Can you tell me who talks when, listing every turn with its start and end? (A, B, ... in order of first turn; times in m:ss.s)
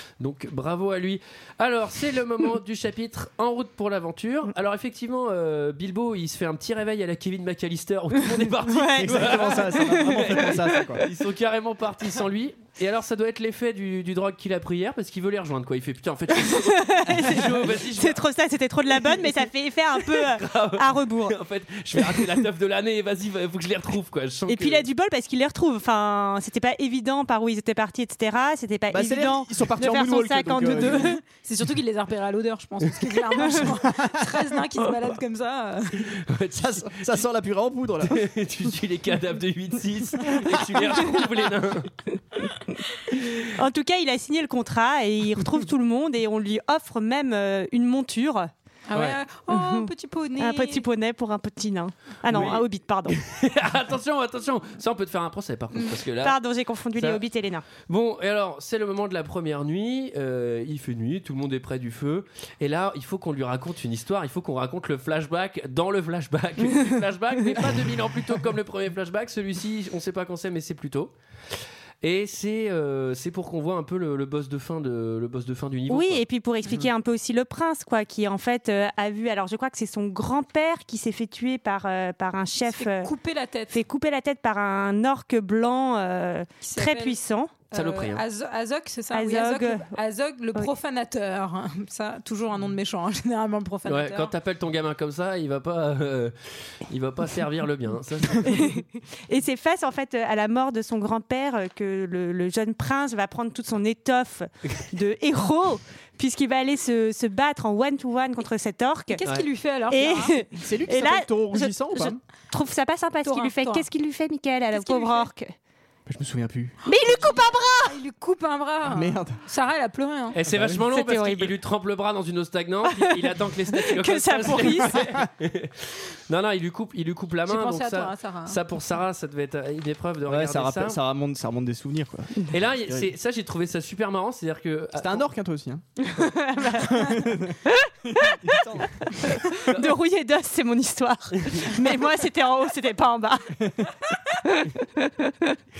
0:00.2-0:18.2 A
0:08.3-0:10.9 B
0:08.9-0:11.0 C
0:16.4-0:21.4 B
0:20.0-0:24.8 A
0:22.0-0:22.2 B
0:24.4-0:31.2 B
0:28.9-0:31.2 C
0:30.7-0:36.1 D
0:33.7-0:34.2 C
0:36.0-0:37.2 A
0:36.6-0:38.2 C
0:38.0-0:41.9 A
0:40.5-0:40.8 C
0:43.3-0:48.5 B
0:48.9-0:50.8 D
0:49.5-0:53.2 B
0:52.3-0:56.4 A
0:56.2-0:57.6 B
0:57.0-0:57.2 A
0:57.8-1:11.1 A
1:12.0-1:16.2 A
1:15.9-1:23.1 B
1:22.7-1:23.8 D
1:23.7-1:27.5 B
1:26.6-1:27.2 D
1:27.7-1:34.3 D
1:27.7-1:28.2 A
1:29.1-1:29.9 B
1:33.9-1:38.8 A
1:38.4-1:49.2 B
1:49.1-1:50.4 D
1:49.9-1:55.5 B
1:50.6-1:52.2 C
1:53.2-1:53.8 D
1:54.7-1:55.3 D
1:56.1-1:56.8 C
1:56.8-2:00.4 D
1:56.9-1:58.0 B
1:58.8-1:59.4 C
2:00.3-2:11.0 A
2:00.4-2:00.8 C
2:00.9-2:01.5 B
2:03.7-2:05.0 B
2:07.4-2:08.6 D
2:10.2-2:13.1 C
2:12.5-2:15.2 A
2:14.9-2:15.8 C
2:16.1-2:25.6 B
2:16.8-2:17.6 C
2:18.1-2:19.3 C
2:19.5-2:19.9 A